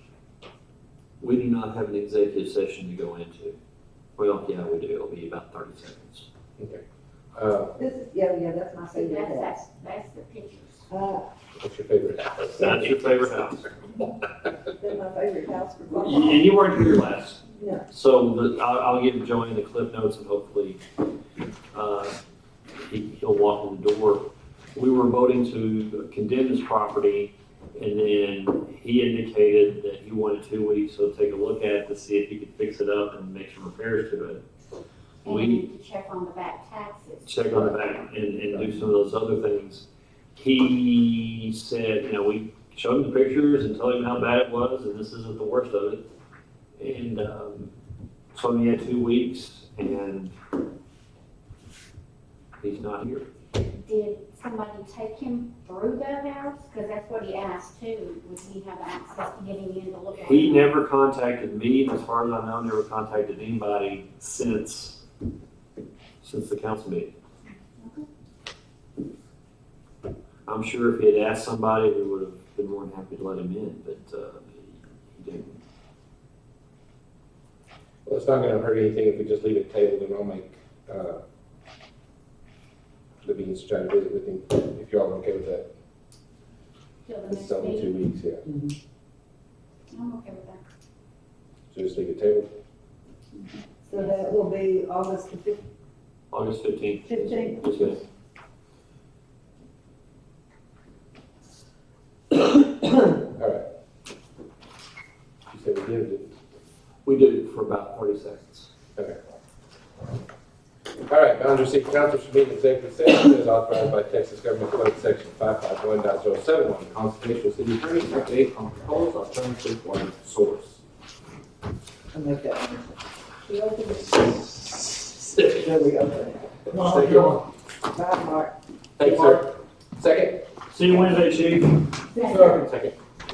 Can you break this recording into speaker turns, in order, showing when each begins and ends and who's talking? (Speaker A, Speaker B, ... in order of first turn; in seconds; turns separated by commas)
Speaker A: 1.2-3.6, Speaker A: 4.2-6.3, Speaker B: 7.3-7.8, Speaker C: 7.8-9.6, Speaker D: 8.9-10.9, Speaker C: 10.9-11.3, Speaker B: 11.6-12.9, Speaker A: 12.4-13.7, Speaker C: 14.7-16.5, Speaker A: 15.9-20.8, Speaker C: 17.6-17.9, Speaker A: 21.7-22.2, Speaker A: 22.8-34.4, Speaker D: 35.2-37.4, Speaker A: 35.3-35.7, Speaker A: 37.2-46.0, Speaker A: 46.8-47.7, Speaker A: 48.3-50.4, Speaker A: 52.6-53.3, Speaker D: 53.7-60.7, Speaker A: 60.2-65.0, Speaker A: 66.2-67.1, Speaker D: 67.8-68.1, Speaker A: 70.5-75.6, Speaker B: 78.1-81.2, Speaker B: 83.2-85.7, Speaker D: 87.0-88.0, Speaker B: 87.3-88.5, Speaker D: 89.9-90.6, Speaker B: 91.7-92.5, Speaker C: 93.9-95.6, Speaker A: 96.3-98.0, Speaker C: 97.0-97.9, Speaker B: 103.3-103.6, Speaker B: 105.5-106.3, Speaker A: 107.0-108.7, Speaker B: 111.1-120.8, Speaker C: 122.1-122.9, Speaker C: 123.5-124.1, Speaker C: 125.3-127.3, Speaker B: 126.7-127.4, Speaker C: 127.9-129.4, Speaker B: 129.0-130.4, Speaker A: 130.7-131.9, Speaker D: 132.1-132.6, Speaker B: 132.2-132.9, Speaker C: 132.2-132.6